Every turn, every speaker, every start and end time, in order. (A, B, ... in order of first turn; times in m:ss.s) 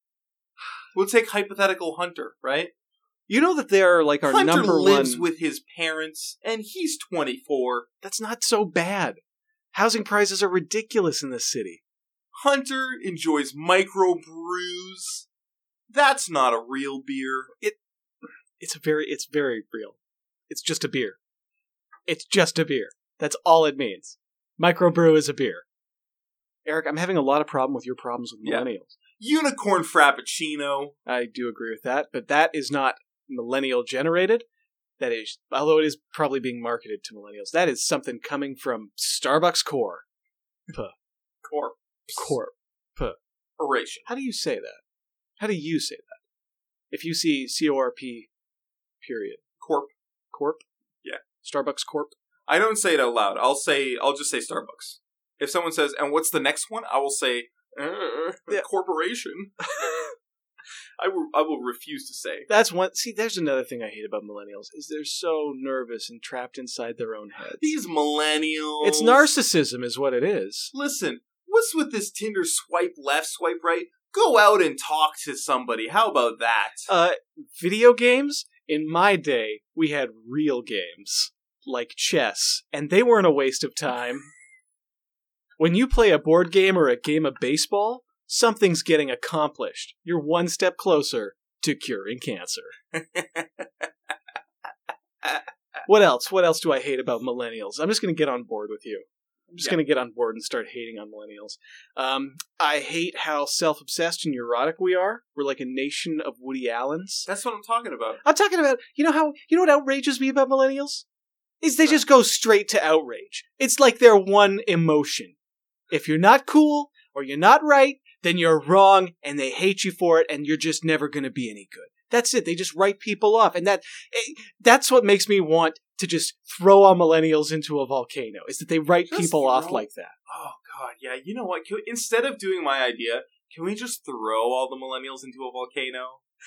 0:00.9-0:02.7 A
0:03.3-0:05.3 B
0:04.2-0:07.8 A
0:08.0-0:09.2 B
0:09.7-0:11.8 B
0:12.4-0:15.3 A
0:15.9-0:17.5 A
0:18.6-0:21.2 B
0:22.1-0:25.6 B
0:26.6-0:29.0 B
0:28.4-0:28.7 A
0:29.2-0:30.9 A
0:31.0-0:34.4 B
0:35.0-0:40.0 B
0:41.4-0:42.4 A
0:42.1-0:43.2 B
0:43.6-0:44.1 A
0:44.1-0:44.8 B
0:45.4-0:46.2 B
0:46.9-0:48.3 B
0:49.0-0:49.4 B
0:49.6-0:49.9 A
0:50.3-0:50.6 B
0:51.4-0:52.1 B
0:52.5-0:59.5 A
0:59.8-1:00.1 B
1:01.0-1:02.5 A
1:02.5-1:07.8 B
1:07.4-1:09.3 A
1:08.8-1:10.7 B
1:10.7-1:16.9 A
1:16.9-1:24.3 B
1:25.6-1:32.7 B
1:32.9-1:33.9 A
1:35.8-1:47.3 B
1:47.2-1:48.2 A
1:48.2-1:51.0 B
1:51.6-1:55.3 B
1:55.9-2:10.1 B
2:09.1-2:16.2 A